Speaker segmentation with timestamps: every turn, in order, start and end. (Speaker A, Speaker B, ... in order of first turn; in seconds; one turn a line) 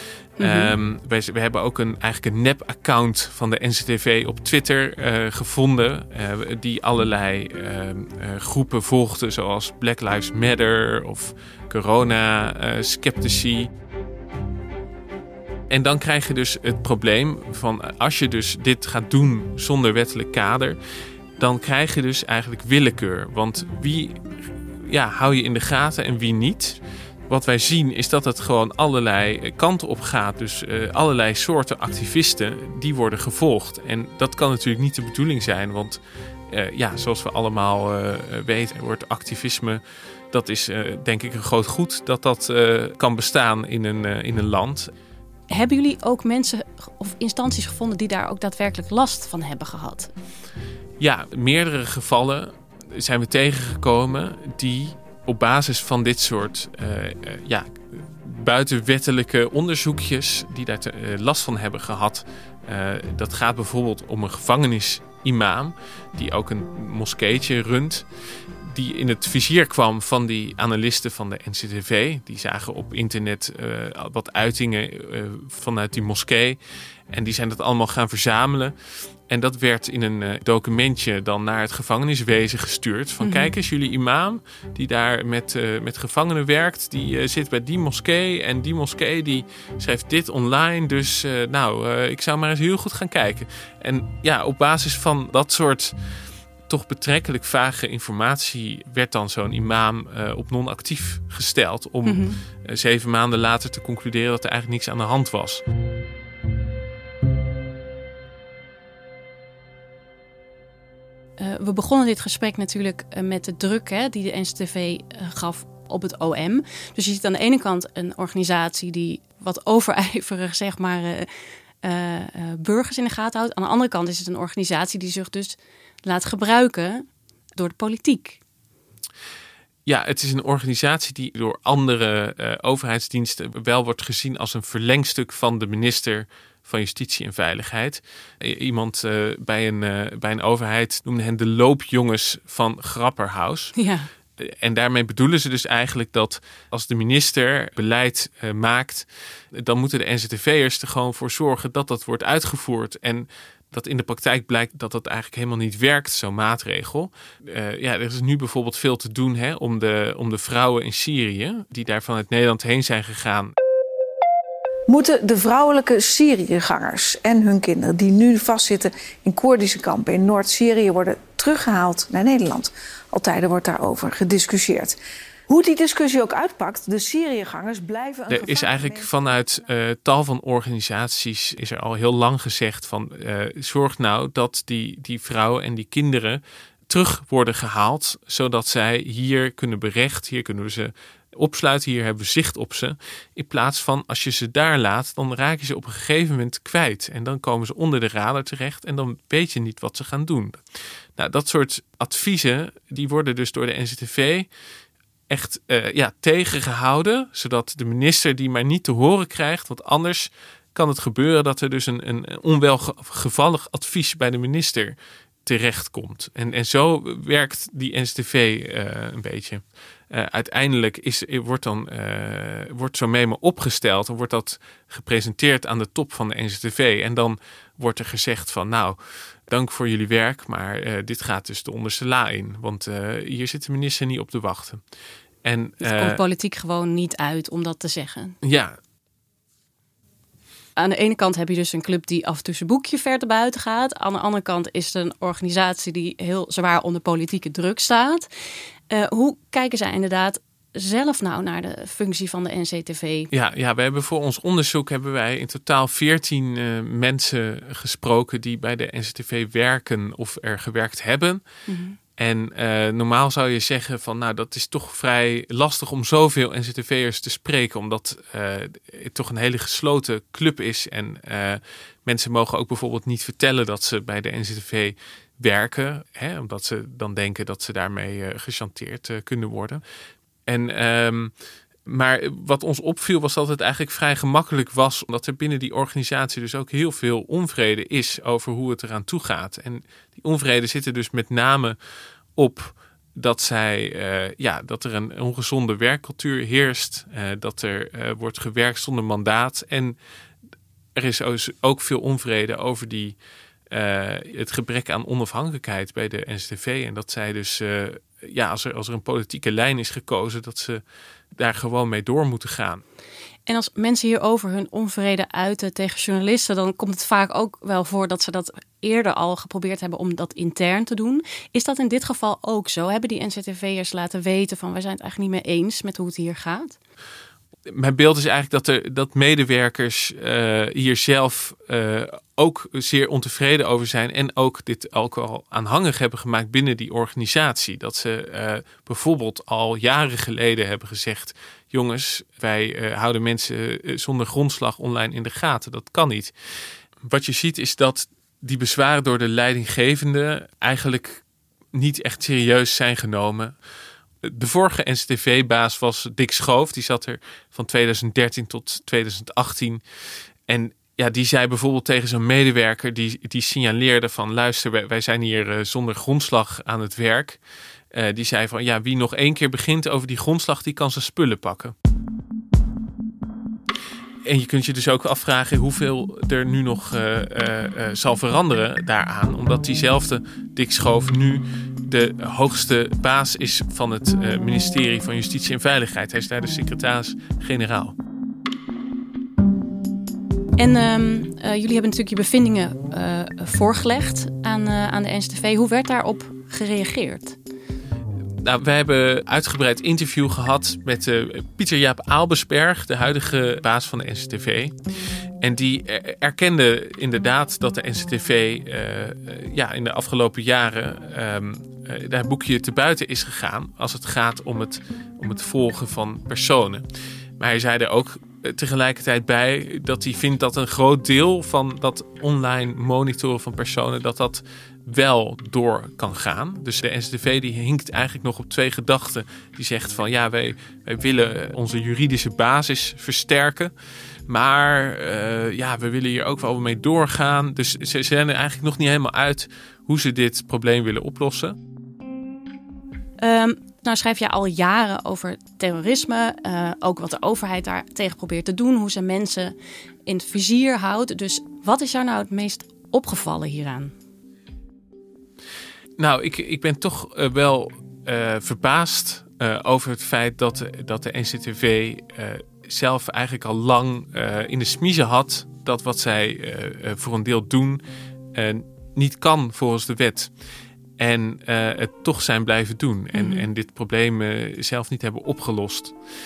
Speaker A: 0.4-0.7
Speaker B: 0.4-13.7
Speaker B: 15.7-20.8
Speaker B: 21.4-24.2
Speaker B: 24.8-36.0
Speaker B: 36.5-44.9
Speaker A: 45.5-50.1
Speaker B: 51.0-68.0
Speaker B: 68.6-76.6
Speaker B: 77.1-78.7
Speaker B: 79.3-95.9
Speaker A: 83.2-83.5
Speaker B: 96.7-105.6
Speaker A: 102.0-102.4
Speaker A: 111.4-121.3
Speaker A: 121.8-127.0
Speaker A: 127.5-128.4
Speaker B: 129.8-143.7
Speaker A: 143.8-144.1
Speaker B: 144.4-163.5
Speaker C: 164.9-175.0
Speaker C: 175.5-179.1
Speaker B: 178.3-200.6
Speaker B: 201.2-204.5
Speaker B: 205.3-234.8
Speaker B: 235.4-236.2
Speaker A: 235.8-238.3
Speaker B: 238.4-238.8
Speaker A: 240.8-248.3
Speaker A: 248.9-253.3
Speaker B: 253.3-261.4
Speaker A: 261.7-262.0
Speaker B: 262.2-279.8
Speaker B: 280.5-281.3
Speaker B: 281.9-291.8
Speaker B: 292.4-300.0
Speaker B: 300.9-303.2
Speaker B: 303.7-310.8
Speaker B: 311.4-312.8
Speaker A: 313.5-326.7
Speaker B: 327.7-346.3
Speaker B: 347.0-351.2
Speaker B: 351.7-353.5
Speaker B: 354.2-359.8
Speaker B: 360.5-367.4
Speaker B: 367.9-371.7
Speaker B: 374.2-387.9
Speaker A: 390.6-397.4
Speaker B: 398.4-404.7
Speaker B: 405.4-416.8
Speaker B: 417.4-433.7
Speaker B: 434.3-441.6
Speaker A: 443.2-449.5
Speaker A: 450.1-453.9
Speaker B: 456.0-467.8
Speaker B: 468.3-470.3
Speaker B: 471.0-475.9
Speaker A: 473.1-473.5